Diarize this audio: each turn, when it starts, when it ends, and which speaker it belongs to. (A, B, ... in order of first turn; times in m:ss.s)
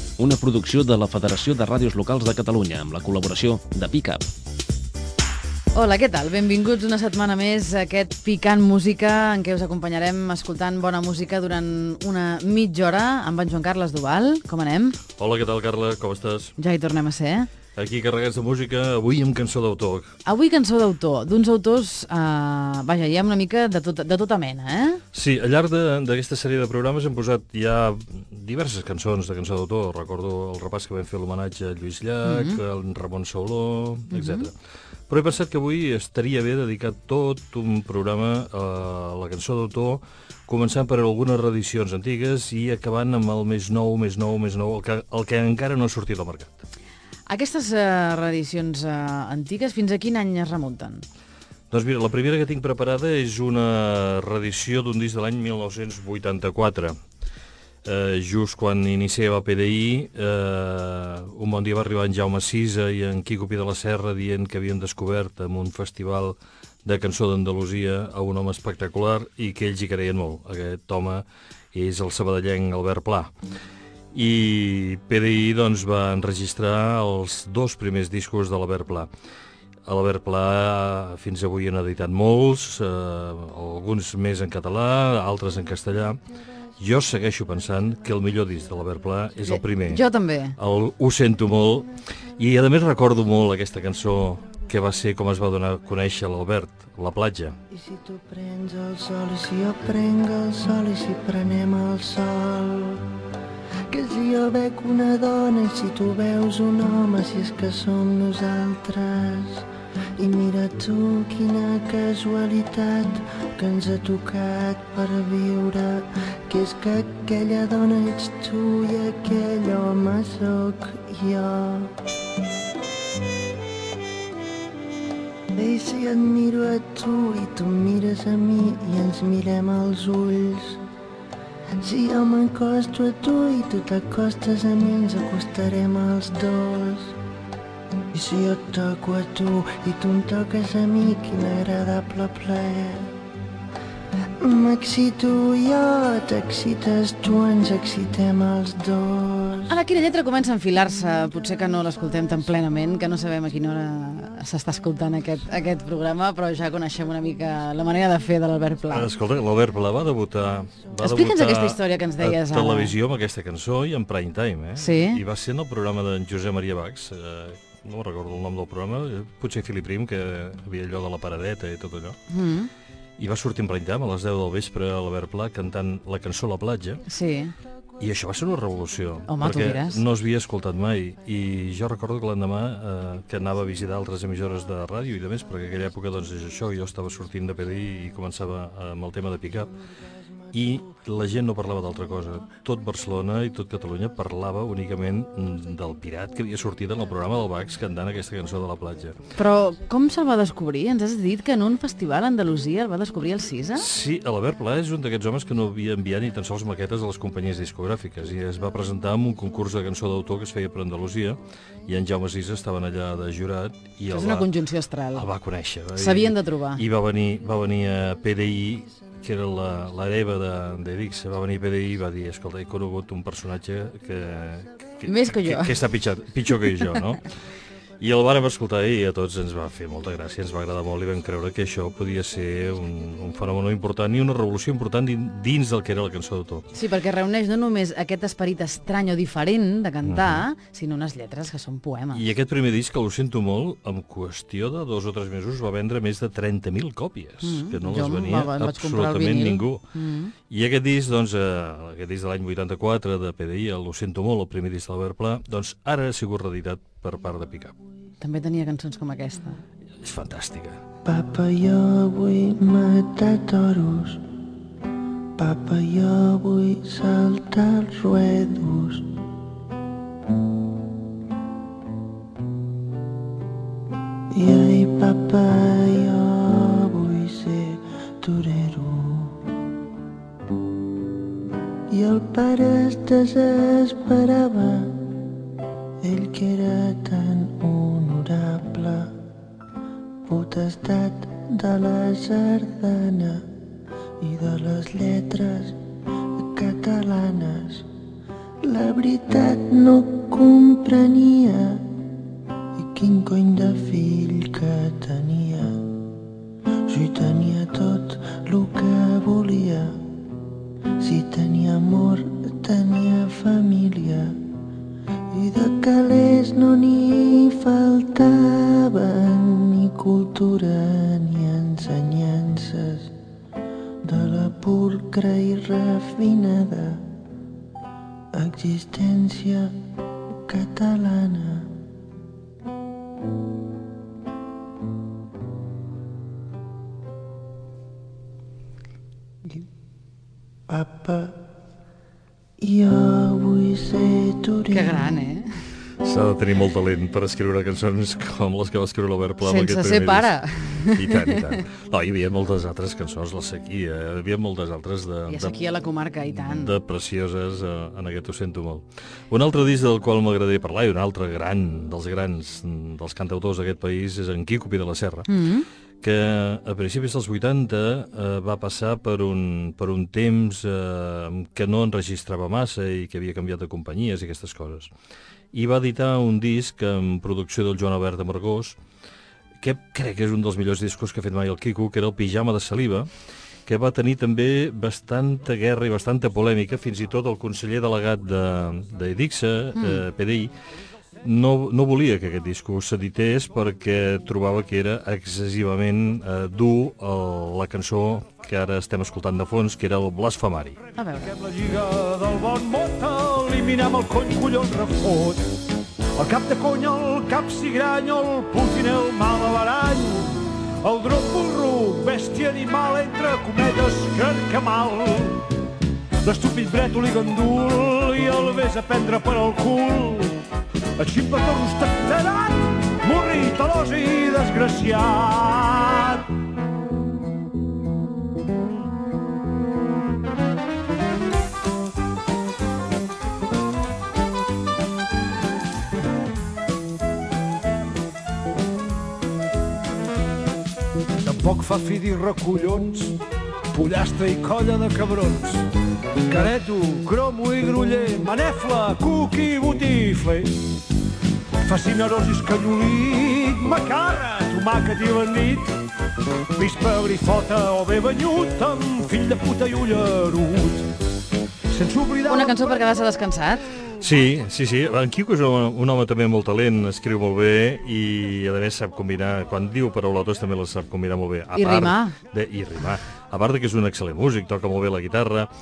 0:00.2-0:04.2 A
0:05.8-0:15.0 B
0:15.2-0:16.5 C
0:16.6-0:17.5 B
0:17.8-0:20.2 C
0:20.3-0:25.0 B
0:25.1-0:34.5 C
0:32.2-0:32.6 B
0:34.1-0:34.5 B
0:35.1-0:46.6 C
0:47.3-0:51.0 B
0:51.7-0:57.0 C
0:57.8-1:13.3 C
1:14.1-1:19.1 C
1:19.9-1:26.2 C
1:26.8-1:30.0 C
1:29.5-1:30.6 B
1:30.6-1:37.6 C
1:37.7-1:43.1 D
1:43.9-2:01.9 D
2:05.5-2:10.8 D
2:11.8-2:17.2 D
2:18.1-2:23.2 D
2:24.4-2:29.8 D
2:29.7-2:39.1 B
2:38.9-2:52.2 C
2:41.0-2:42.9 B
2:44.8-2:45.2 B
2:52.3-2:52.7 B
2:53.2-2:57.0 C
2:57.1-2:57.5 B
2:58.0-3:09.7 C
2:59.3-3:00.0 B
3:10.5-3:19.2 C
3:19.4-3:23.9 B
3:23.8-3:34.5 C
3:34.1-3:35.3 B
3:35.2-3:47.3 C
3:36.0-3:36.8 B
3:45.1-3:45.8 B
3:48.0-3:56.7 C
3:56.7-4:02.2 B
4:00.0-4:00.4 C
4:02.1-4:09.8 C
4:07.4-4:10.3 B
4:10.5-4:17.7 C
4:18.2-4:19.6 B
4:20.0-4:20.8 C
4:21.0-4:24.2 D
4:25.4-4:29.1 D
4:34.3-4:39.4 D
4:41.9-4:45.0 D
4:46.0-4:49.1 D
4:50.3-4:53.5 D
4:54.2-4:55.8 D
4:56.4-4:57.9 D
4:58.6-5:01.9 D
5:02.8-5:05.9 D
5:06.9-5:10.0 D
5:11.0-5:14.4 D
5:15.3-5:23.1 D
5:24.0-5:27.0 D
5:28.3-5:29.8 D
5:30.3-5:31.7 D
5:40.7-5:41.4 D
5:42.6-5:45.2 D
5:44.7-5:45.5 B
5:46.0-5:55.6 C
5:49.4-5:51.4 B
5:55.3-5:56.7 B
5:56.3-6:05.3 C
6:05.3-6:05.7 B
6:06.0-6:14.9 C
6:15.5-6:18.8 C
6:19.6-6:23.1 C
6:23.7-6:30.5 C
6:29.8-6:30.0 B
6:31.2-6:40.8 C
6:41.0-6:41.3 B
6:41.2-6:45.5 E
6:46.2-6:55.4 E
6:56.2-7:00.4 E
7:01.0-7:06.2 E
7:21.2-7:23.0 E
7:23.7-7:25.7 E
7:26.3-7:30.6 E
7:31.6-7:35.8 E
7:36.6-7:40.9 E
7:41.7-7:42.7 E
7:42.3-7:43.7 B
7:44.0-7:55.5 C
7:51.6-7:52.2 B